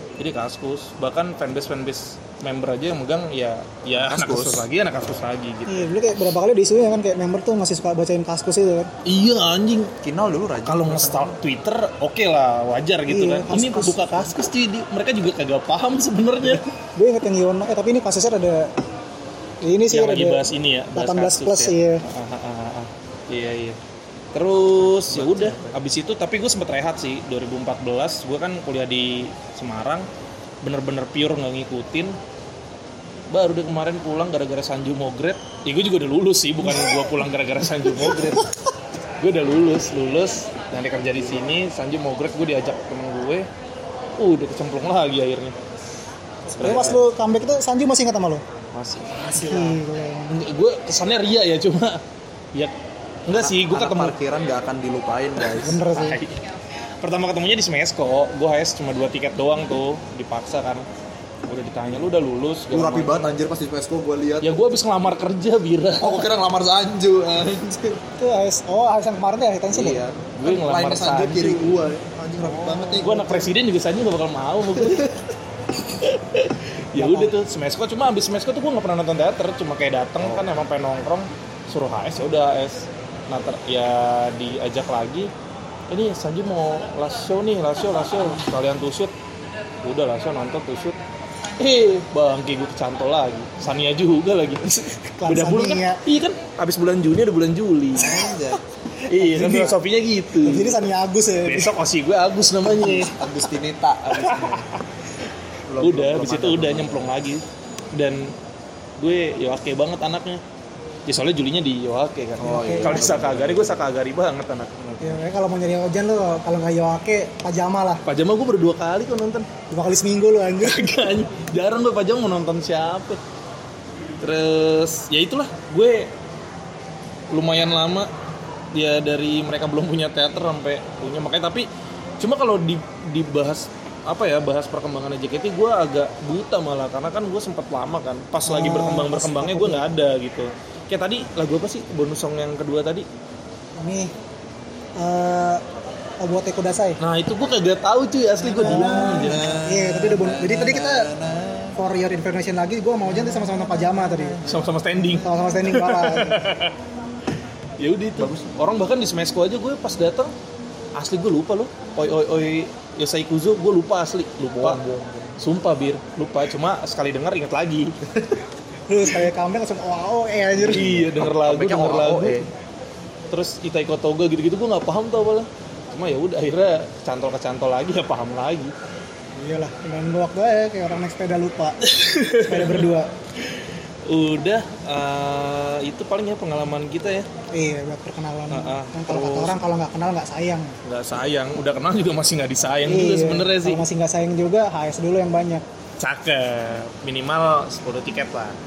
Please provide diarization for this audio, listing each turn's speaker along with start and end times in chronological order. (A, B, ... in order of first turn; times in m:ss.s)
0:00.2-0:05.9 A
0:04.0-0:04.6 B
0:05.6-0:08.9 C
0:09.0-0:09.9 A
0:10.0-0:11.3 B
0:10.6-0:16.7 A
0:13.1-0:14.4 C
0:17.0-0:18.7 C
0:19.6-0:22.0 C
0:19.9-0:23.8 A
0:24.3-0:30.1 A
0:25.1-0:25.8 B
0:30.6-0:32.2 A
0:33.3-0:38.5 A
0:36.7-0:37.2 C
0:37.9-0:38.4 C
0:39.2-0:43.5 A
0:44.2-0:45.5 A
0:46.5-0:48.4 C
0:46.5-0:47.0 B
0:46.6-0:47.0 A
0:48.8-0:52.0 A
0:49.0-0:49.3 B
0:49.3-0:50.4 C
0:53.2-0:54.1 A
0:53.3-0:55.8 B
0:55.4-0:56.4 A
0:55.6-0:56.2 C
0:57.0-1:00.8 A
1:01.5-1:03.3 A
1:02.7-1:04.7 B
1:04.4-1:06.3 A
1:06.0-1:08.0 B
1:08.1-1:10.0 C
1:09.7-1:13.5 B
1:10.4-1:11.8 A
1:12.6-1:13.1 C
1:13.0-1:25.3 A
1:14.8-1:15.1 B
1:16.9-1:17.3 C
1:20.2-1:20.5 B
1:25.9-1:29.1 A
1:29.8-1:31.0 A
1:31.6-1:38.1 A
1:35.0-1:36.0 C
1:37.9-1:38.6 B
1:39.0-1:40.8 A
1:39.1-1:39.8 C
1:40.4-1:41.7 C
1:41.4-1:43.1 A
1:42.8-1:44.6 B
1:44.1-1:44.8 A
1:45.7-1:47.1 B
1:45.8-1:47.4 A
1:47.9-1:48.3 A
1:49.0-1:50.4 A
1:51.1-1:55.2 A
1:52.4-1:53.8 B
1:52.4-1:53.2 C
1:55.0-1:58.0 C
1:58.0-1:59.5 A
1:59.7-2:01.1 C
2:00.6-2:03.2 A
2:04.2-2:06.1 A
2:07.3-2:08.1 A
2:08.7-2:11.7 A
2:12.2-2:23.0 A
2:18.4-2:19.9 C
2:23.8-2:24.1 C
2:25.0-2:25.6 C
2:26.2-2:27.0 C
2:27.0-2:29.5 A
2:28.4-2:31.8 B
2:28.6-2:31.1 C
2:31.8-2:34.4 C
2:33.1-2:35.5 B
2:34.4-2:36.8 A
2:35.1-2:36.4 C
2:37.8-2:40.3 A
2:38.2-2:38.6 B
2:40.9-2:44.8 A
2:44.6-2:45.4 B
2:45.4-2:47.9 A
2:48.9-2:51.2 C
2:50.5-2:52.5 A
2:51.0-2:52.4 B
2:53.3-2:58.7 A
2:59.4-3:03.1 C
3:01.8-3:02.9 A
3:03.4-3:07.3 A
3:07.5-3:10.7 C
3:08.5-3:09.6 A
3:10.8-3:13.8 A
3:12.8-3:15.6 C
3:16.0-3:18.6 A